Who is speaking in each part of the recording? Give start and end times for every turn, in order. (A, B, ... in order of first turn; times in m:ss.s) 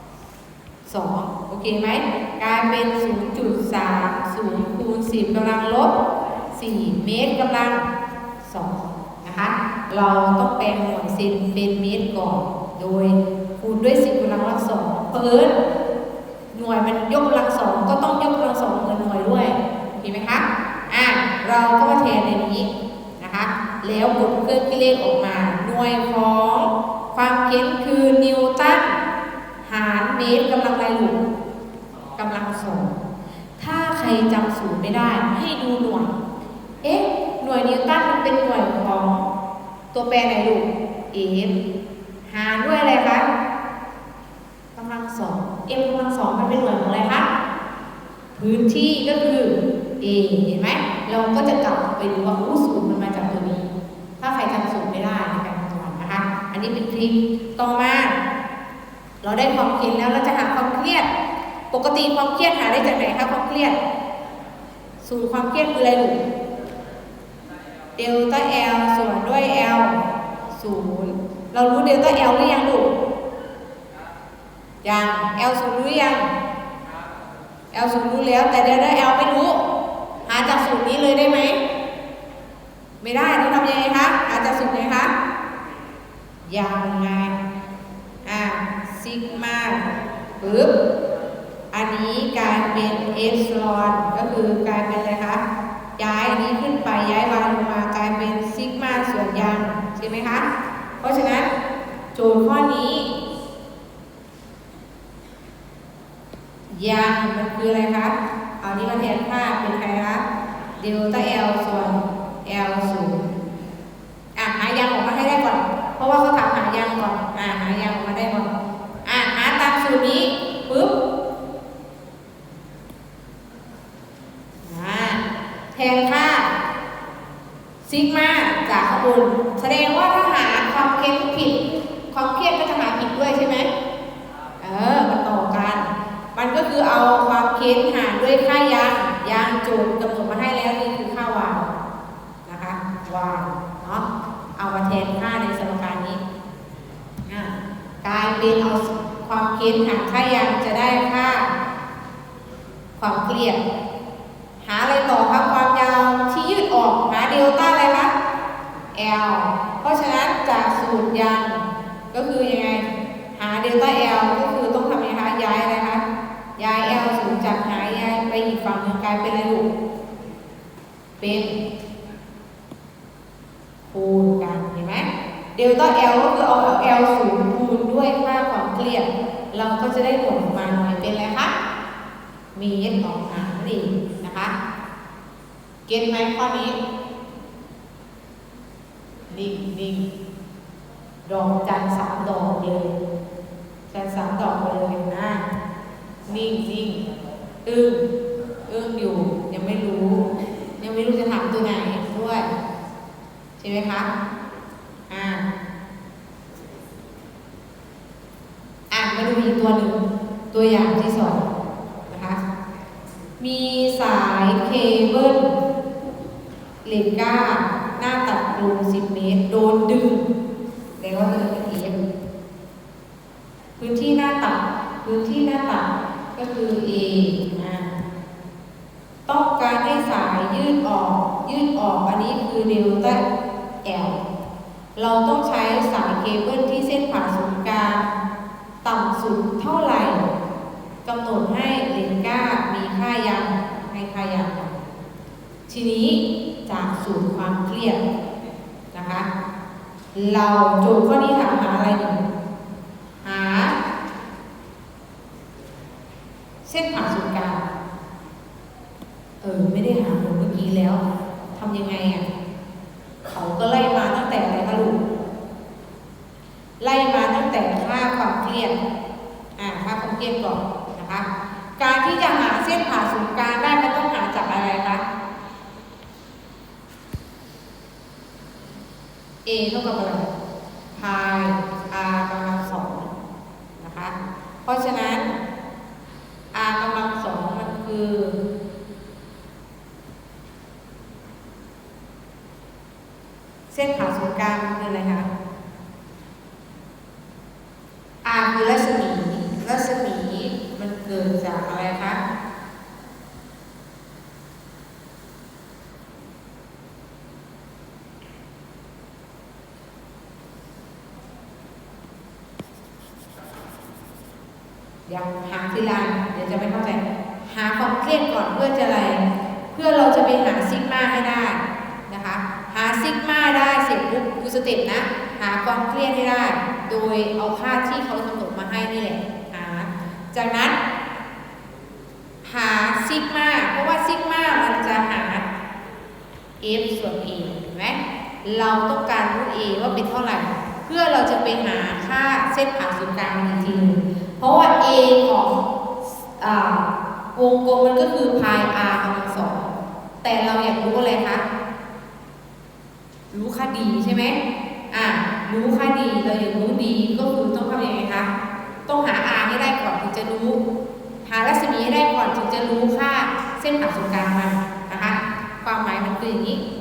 0:00.8-0:05.9 A
0:06.5-0:07.8 A
0:08.4-0:15.6 A
0:16.5-0:29.0 A
0:29.6-0:31.2 A
0:32.2-0:32.9 A
0:33.6-0:36.2 A
0:36.8-0:39.2 A
0:39.9-0:41.6 A
0:42.3-0:43.2 A
0:44.8-0:47.3 A
0:48.4-0:58.2 A
0:59.2-1:01.1 A
1:01.7-1:03.8 A
1:05.0-1:06.2 A
1:08.0-1:12.9 A
1:14.8-1:16.3 A
1:17.7-1:19.6 A
1:20.3-1:21.6 A
1:23.0-1:25.1 A
1:26.5-1:27.4 A
1:28.2-1:29.8 A
1:30.4-1:30.7 A
1:31.7-1:35.4 A
1:36.0-1:40.5 A
1:41.0-1:41.5 A
1:42.1-1:43.1 A
1:46.7-1:50.2 A
1:50.8-1:53.2 A
1:54.4-1:58.5 A
1:59.0-2:00.9 A
2:04.6-2:05.2 A
2:05.7-2:06.5 A
2:07.8-2:11.6 A
2:12.1-2:13.7 A
2:14.6-2:21.7 A
2:22.4-2:24.0 A
2:24.6-2:26.2 A
2:27.3-2:31.5 A
2:33.0-2:33.6 A
2:34.6-2:38.1 A
2:38.9-2:46.0 A
2:46.6-2:49.7 A
2:51.2-2:51.6 A
2:53.9-3:01.5 A
3:02.5-3:04.5 A
3:05.9-3:06.8 A
3:09.3-3:10.0 A
3:11.2-3:13.0 A
3:13.9-3:15.4 A
3:16.3-3:17.0 A
3:17.6-3:18.0 A
3:18.7-3:20.3 A
3:20.8-3:22.5 A
3:23.6-3:24.1 A
3:25.1-3:25.4 A
3:28.9-3:31.5 A
3:32.1-3:32.4 A
3:33.4-3:35.5 A
3:36.8-3:40.3 A
3:41.0-3:42.0 A
3:43.8-3:47.9 A
3:49.3-3:53.2 A
3:53.8-3:54.2 A
3:55.0-3:58.1 A
3:58.8-4:00.3 A
4:01.0-4:04.8 A
4:05.7-4:08.0 A
4:08.9-4:09.3 A
4:10.1-4:12.2 A
4:13.2-4:13.7 A
4:16.6-4:17.6 A
4:19.4-4:21.0 A
4:21.5-4:22.3 A
4:23.3-4:25.0 A
4:26.8-4:28.8 A
4:29.6-4:31.3 A
4:31.8-4:35.0 A
4:39.4-4:40.3 A
4:40.9-4:43.1 A
4:43.8-4:45.4 A
4:46.5-4:48.4 A
4:53.7-4:55.3 A
4:58.2-5:02.2 A
5:15.1-5:30.8 A
5:32.4-5:35.4 A
5:36.6-5:49.7 A
5:50.2-5:51.4 A
5:53.3-5:54.4 A
5:54.9-5:58.3 A
5:58.9-6:00.6 A
6:01.2-6:06.6 A